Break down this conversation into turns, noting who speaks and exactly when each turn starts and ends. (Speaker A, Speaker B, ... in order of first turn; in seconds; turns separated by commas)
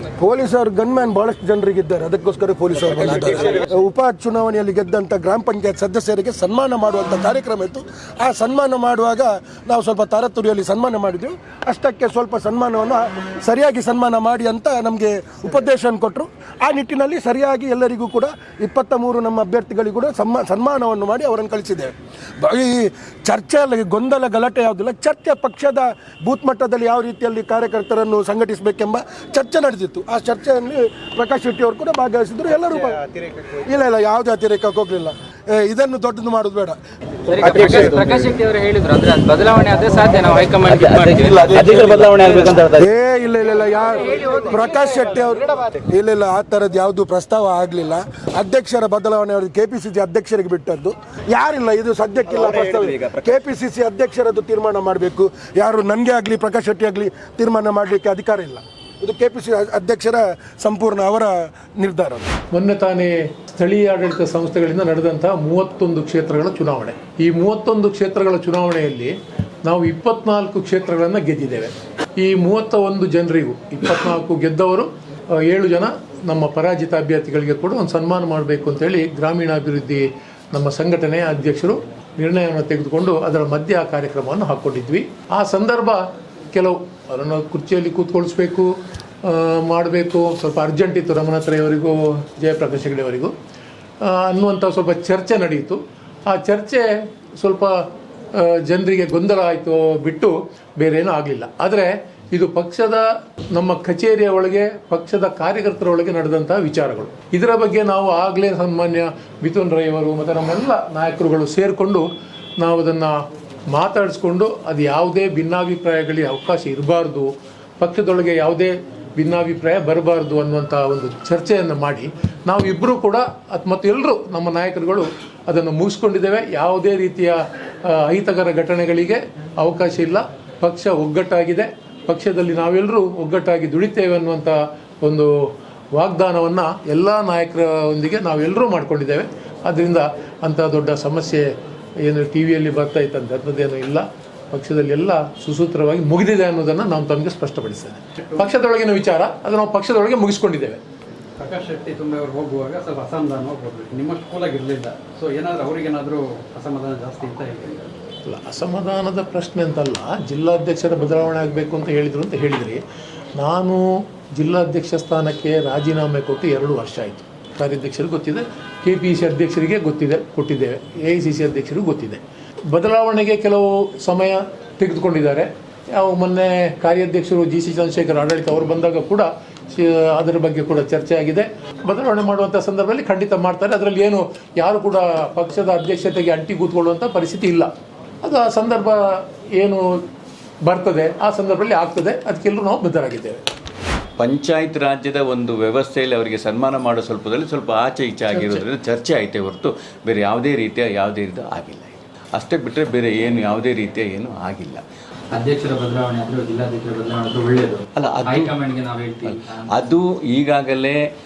Speaker A: 0.2-36.8, Speaker B: 37.3-38.3, Speaker C: 37.5-41.5, Speaker B: 40.6-42.9, Speaker A: 42.7-62.3, Speaker B: 52.7-53.1, Speaker D: 62.5-69.1, Speaker D: 69.7-93.3, Speaker D: 94.0-112.1, Speaker D: 112.6-141.5, Speaker D: 142.0-150.8, Speaker E: 151.4-157.9, Speaker D: 158.2-162.8, Speaker D: 163.4-187.7, Speaker D: 188.2-189.9, Speaker D: 190.6-193.4, Speaker F: 194.2-204.8, Speaker D: 198.3-198.6, Speaker C: 205.3-209.7, Speaker F: 208.0-208.6, Speaker F: 209.2-211.0